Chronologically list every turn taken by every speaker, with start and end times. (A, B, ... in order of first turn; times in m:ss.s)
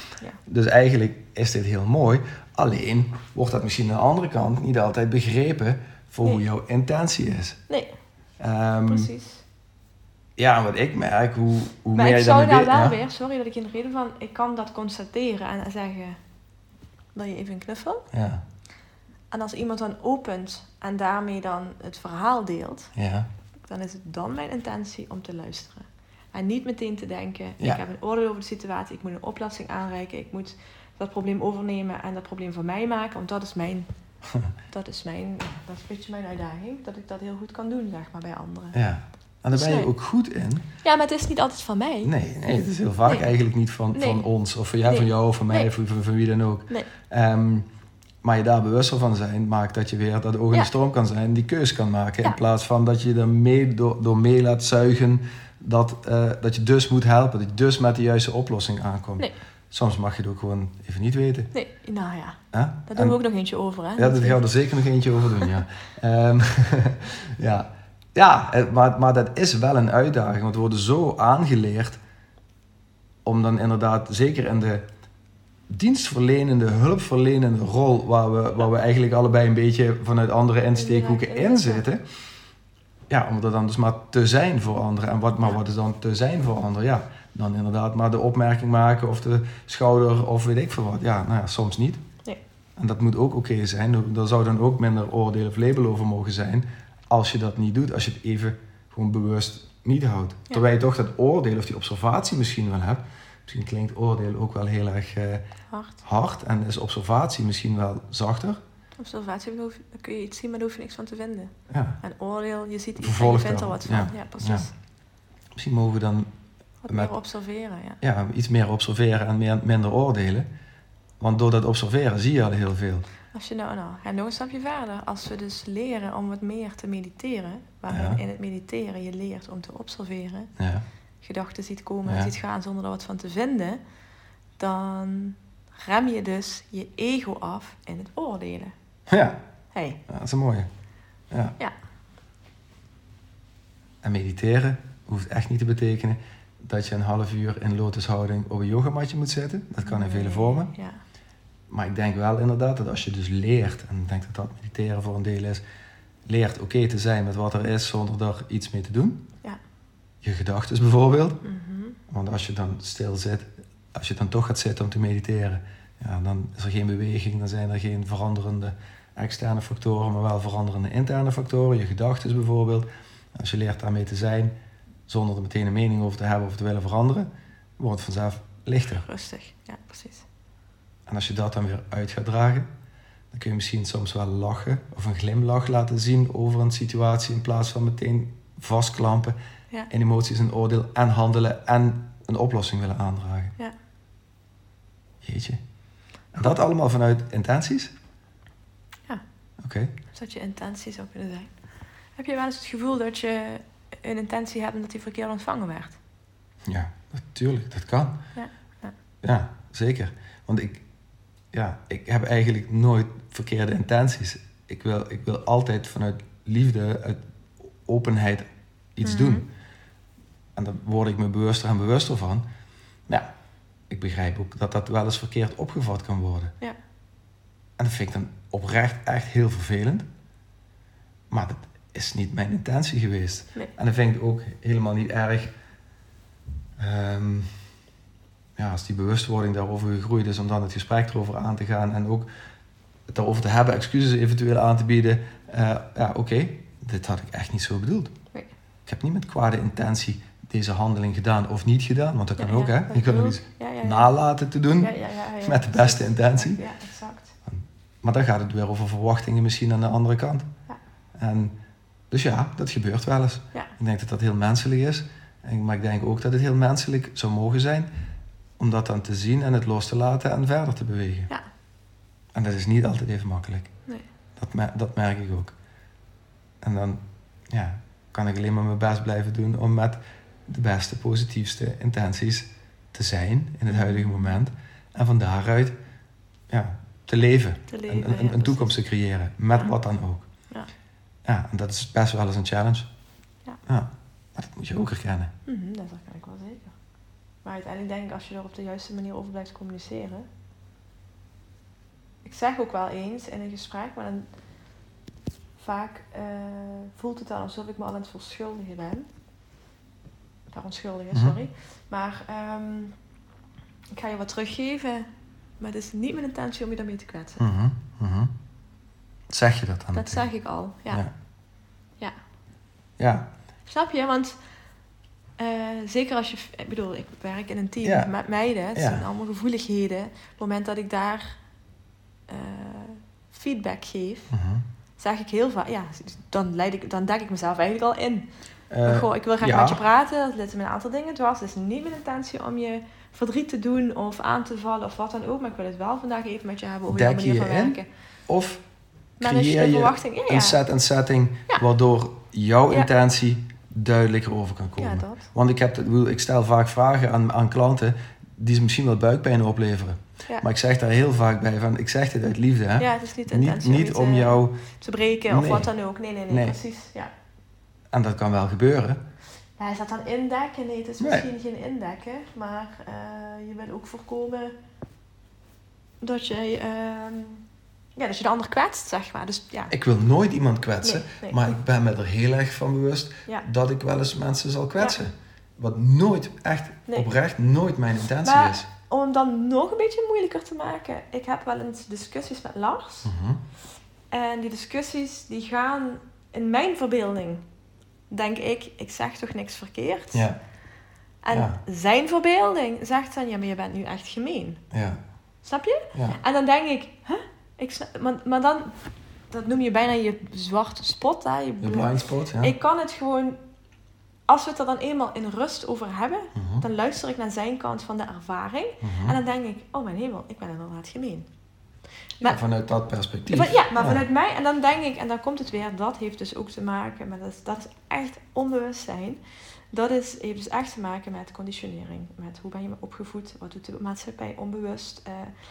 0:00.5-0:07.6 A
0:07.7-0:07.9 B
0:08.4-0:09.1 A
0:08.9-0:09.4 B
0:10.4-0:13.0 A
0:12.0-0:16.2 B
0:17.2-0:18.1 B
0:18.1-0:18.4 A
0:19.3-0:22.9 B
0:23.0-0:23.3 A
0:23.7-0:33.9 B
0:34.7-0:38.8 B
0:38.7-0:40.7 A
0:39.5-0:39.9 B
0:40.8-0:42.1 B
0:42.0-0:47.7 A
0:43.9-0:44.2 B
0:44.8-0:45.7 B
0:48.2-1:01.5 A
1:01.5-1:04.4 B
1:02.5-1:03.2 A
1:04.0-1:12.0 A
1:13.2-1:14.9 A
1:15.7-1:22.0 A
1:20.8-1:21.9 B
1:23.1-1:32.0 A
1:32.8-1:45.4 A
1:45.7-1:46.0 B
1:46.0-1:48.6 A
1:49.0-1:54.7 B
1:51.7-1:52.0 A
1:53.0-1:54.7 A
1:55.6-1:56.3 A
1:56.8-1:58.0 B
1:58.0-2:00.5 A
2:01.2-2:03.1 A
2:03.3-2:10.5 B
2:07.9-2:08.2 A
2:10.6-2:10.8 A
2:11.2-2:13.8 B
2:12.1-2:12.3 A
2:14.6-2:18.7 B
2:19.1-2:19.4 A
2:19.7-2:20.0 B
2:20.1-2:20.7 A
2:21.3-2:21.6 A
2:24.0-2:30.7 A
2:29.8-2:31.0 B
2:31.7-2:35.6 A
2:36.3-2:39.3 A
2:40.2-2:41.4 A
2:41.4-2:42.0 B
2:42.1-2:54.5 A
2:55.1-2:59.1 A
2:58.9-3:00.3 B
3:01.1-3:02.7 A
3:03.3-3:09.4 A
3:09.9-3:13.6 A
3:15.2-3:15.6 A
3:16.3-3:17.9 A
3:19.6-3:19.9 A
3:20.1-3:21.5 B
3:22.2-3:26.0 B
3:26.6-3:28.2 A
3:28.4-3:28.9 B
3:29.2-3:30.8 A
3:31.5-3:37.2 A
3:37.9-3:39.5 A
3:39.0-3:39.4 B
3:40.6-3:42.4 A
3:43.9-3:46.5 A
3:47.8-3:50.1 A
3:51.3-3:55.5 A
3:56.8-3:57.6 A
3:58.6-4:02.3 A
4:03.1-4:08.1 A
4:08.9-4:16.6 A
4:12.4-4:14.1 B
4:14.8-4:17.4 B
4:17.5-4:20.5 A
4:21.2-4:21.5 A
4:22.1-4:27.9 A
4:28.6-4:31.3 A
4:32.3-4:33.7 A
4:34.4-4:35.5 A
4:36.6-4:45.8 A
4:43.7-4:44.3 B
4:46.5-4:50.3 A
4:47.7-4:48.8 B
4:51.2-4:52.9 A
4:53.7-4:55.3 A
4:55.5-4:56.7 B
4:57.4-5:00.3 B
5:02.2-5:04.3 B
5:05.6-5:09.1 B
5:10.5-5:13.0 B
5:11.1-5:11.4 A
5:14.0-5:15.1 B
5:15.6-5:17.4 B
5:17.4-5:18.3 A
5:19.3-5:20.3 A
5:19.9-5:21.0 B
5:23.0-5:23.3 A
5:23.7-5:24.4 B
5:25.4-5:31.4 B
5:27.8-5:28.1 A
5:28.8-5:29.0 A
5:32.3-5:34.3 B
5:34.3-5:34.6 A
5:35.0-5:38.3 B
5:38.7-5:39.8 A
5:38.8-5:47.9 B
5:46.9-5:47.8 A
5:48.3-5:48.6 A
5:49.2-5:50.6 B
5:49.2-6:04.6 A
5:54.8-5:55.3 B
6:02.8-6:07.1 B
6:05.3-6:05.7 A
6:06.3-6:06.6 A
6:07.9-6:09.0 A
6:09.6-6:14.6 B
6:11.0-6:11.3 A
6:16.0-6:17.4 B
6:18.0-6:19.7 B
6:19.7-6:28.7 A
6:20.8-6:21.5 B
6:28.2-6:33.1 B
6:33.0-6:33.4 A
6:34.1-6:37.4 B
6:38.1-6:40.3 B
6:41.2-6:44.6 B
6:41.3-6:41.6 A
6:44.7-6:45.0 A
6:45.4-6:48.8 B
6:49.3-6:53.4 B
6:51.6-6:52.5 A
6:54.3-7:01.3 B
6:56.4-6:56.6 A
6:58.8-6:59.2 A
7:02.2-7:04.0 A
7:03.3-7:09.2 B
7:09.7-7:15.3 B